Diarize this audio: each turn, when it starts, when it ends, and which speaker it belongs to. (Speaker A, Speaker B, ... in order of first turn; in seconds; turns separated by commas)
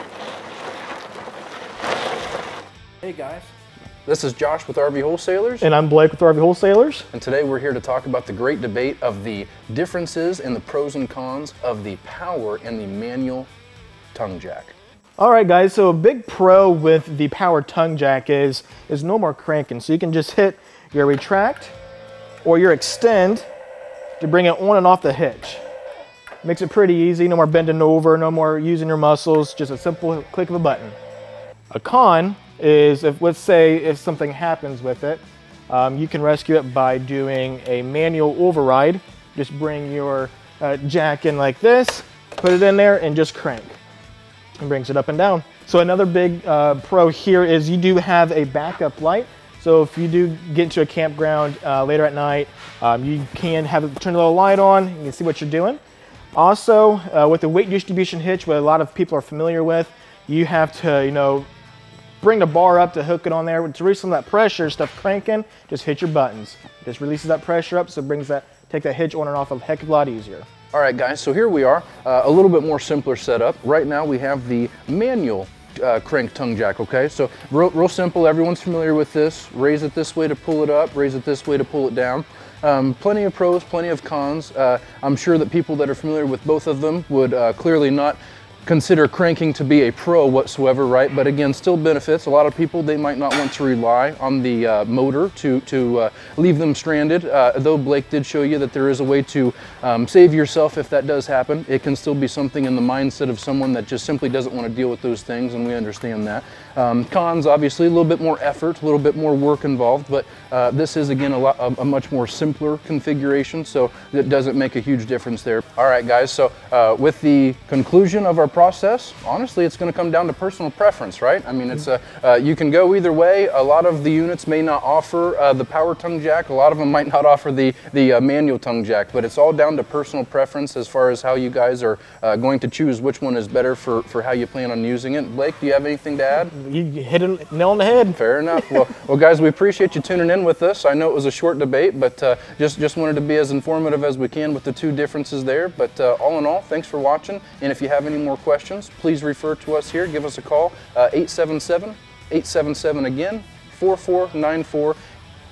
Speaker A: 3.0-3.5, Speaker A: 4.0-5.6, Speaker B: 5.6-7.1, Speaker A: 7.1-13.5, Speaker A: 14.1-14.8, Speaker B: 15.2-21.7, Speaker B: 22.4-23.4, Speaker B: 24.2-25.6, Speaker B: 26.4-31.0, Speaker B: 31.7-43.8, Speaker B: 44.6-55.8, Speaker B: 56.3-61.5, Speaker B: 62.2-70.5, Speaker A: 70.7-136.5, Speaker B: 136.5-138.2, Speaker A: 138.2-155.0